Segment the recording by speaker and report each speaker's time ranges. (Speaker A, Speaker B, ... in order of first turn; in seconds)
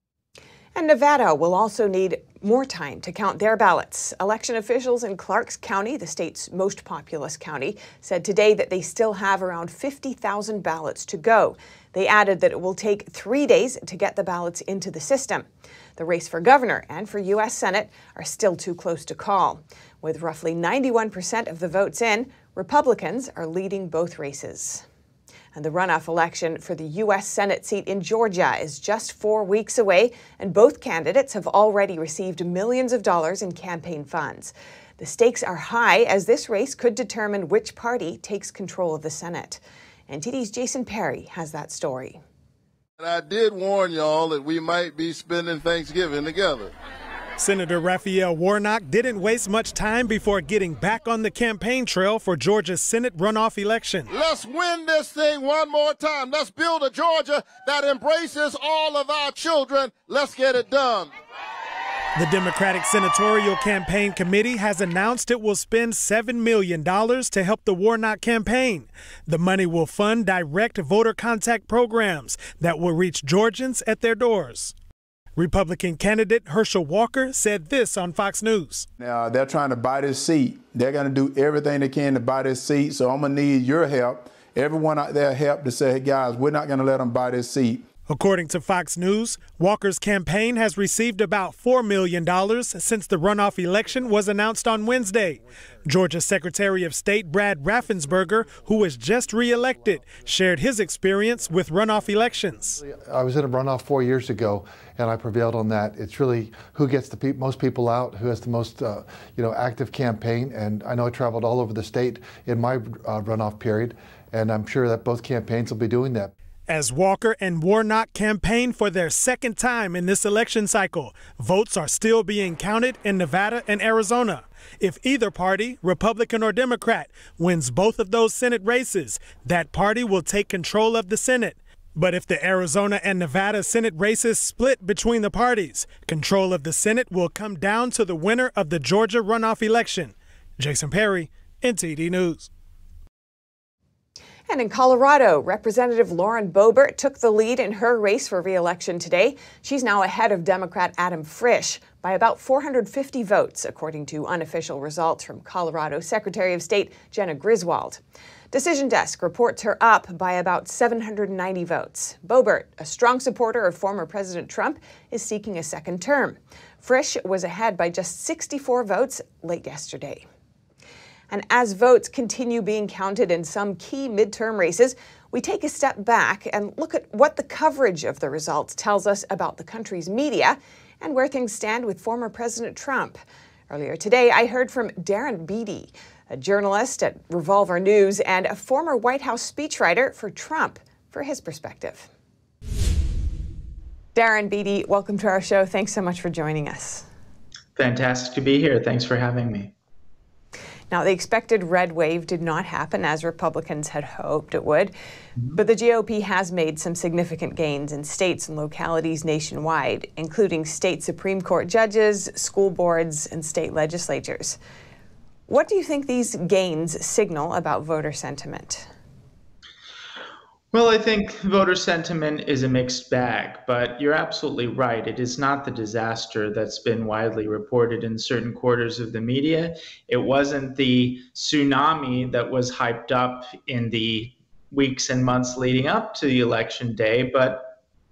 Speaker A: 0.7-24.9, 25.5-42.2, 144.5-158.0, 158.5-170.2, 171.3-192.1, 194.1-197.1, 200.9-204.9, 205.5-214.6, 215.5-218.9
Speaker B: 43.0-46.7, 54.1-61.1
Speaker C: 47.4-54.1, 62.1-74.7, 75.3-78.9, 88.1-102.8, 116.7-142.5
Speaker D: 79.0-87.8
Speaker E: 102.8-116.3
Speaker F: 197.8-199.7, 220.7-237.7